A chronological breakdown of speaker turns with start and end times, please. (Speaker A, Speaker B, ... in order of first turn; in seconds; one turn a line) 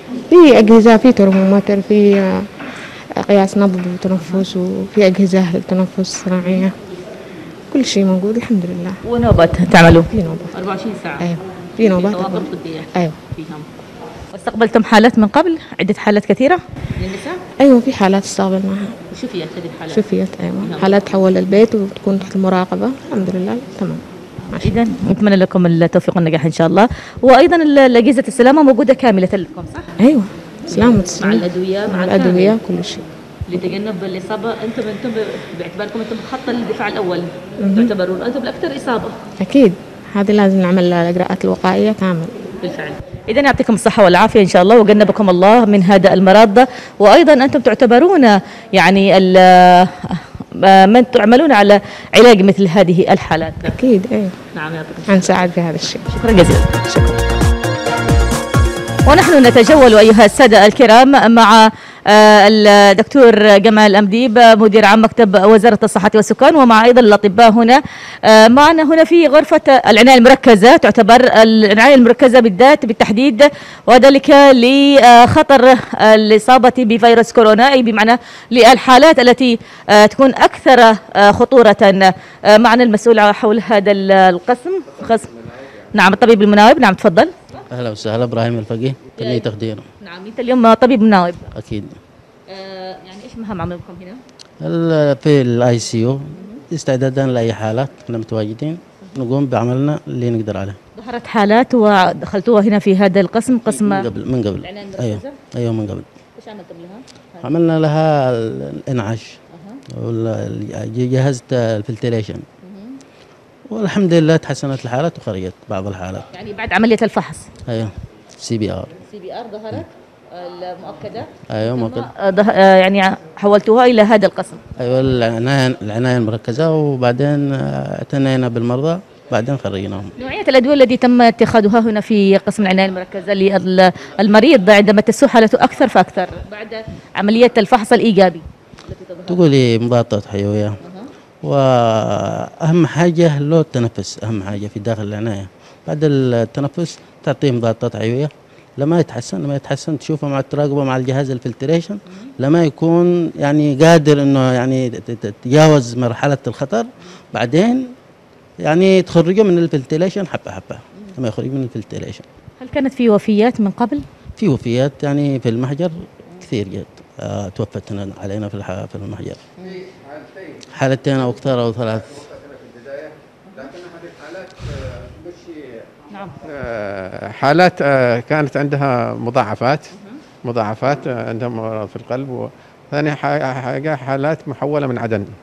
Speaker A: 0.3-6.8
Speaker A: 7.7-9.0
Speaker B: 9.1-11.3
Speaker A: 10.1-10.5
Speaker A: 11.2-13.2
Speaker B: 11.8-13.7
Speaker B: 14.3-17.4
Speaker A: 17.6-18.9
Speaker B: 19.1-20.1
Speaker A: 19.9-24.7
Speaker B: 20.6-21.0
Speaker B: 24.5-29.9
Speaker A: 30.0-33.0
Speaker B: 30.7-32.6
Speaker B: 33.5-39.2
Speaker A: 37.6-37.9
Speaker A: 39.4-42.4
Speaker B: 42.6-53.7
Speaker A: 53.7-54.4
Speaker B: 54.5-55.3
Speaker A: 55.1-56.1
Speaker B: 56.1-56.8
Speaker A: 56.9-57.2
Speaker B: 59.1-85.3
Speaker B: 85.9-87.6
Speaker C: 87.7-89.8
Speaker B: 89.2-89.5
Speaker B: 90.0-91.5
Speaker C: 91.5-92.0
Speaker B: 92.5-94.2
Speaker C: 94.6-100.8
Speaker B: 96.3-96.6
Speaker B: 101.0-104.1
Speaker C: 103.5-106.0
Speaker B: 104.6-105.4
Speaker B: 106.4-107.5
Speaker C: 107.4-109.4
Speaker B: 109.5-109.8
Speaker C: 109.9-112.5
Speaker B: 112.6-113.0
Speaker C: 113.7-116.3
Speaker B: 116.3-117.5
Speaker C: 117.7-118.9
Speaker B: 119.0-124.6
Speaker C: 121.5-122.1
Speaker C: 124.8-130.1
Speaker B: 130.2-139.6
Speaker C: 139.3-140.8
Speaker B: 140.8-141.1
Speaker C: 141.4-157.9
Speaker C: 158.6-162.2
Speaker B: 162.6-164.1
Speaker C: 164.4-169.4
Speaker D: 169.8-170.6
Speaker C: 170.7-172.2
Speaker D: 172.4-175.8
Speaker B: 173.5-173.7
Speaker B: 176.1-176.3
Speaker D: 176.4-179.9
Speaker D: 180.4-185.3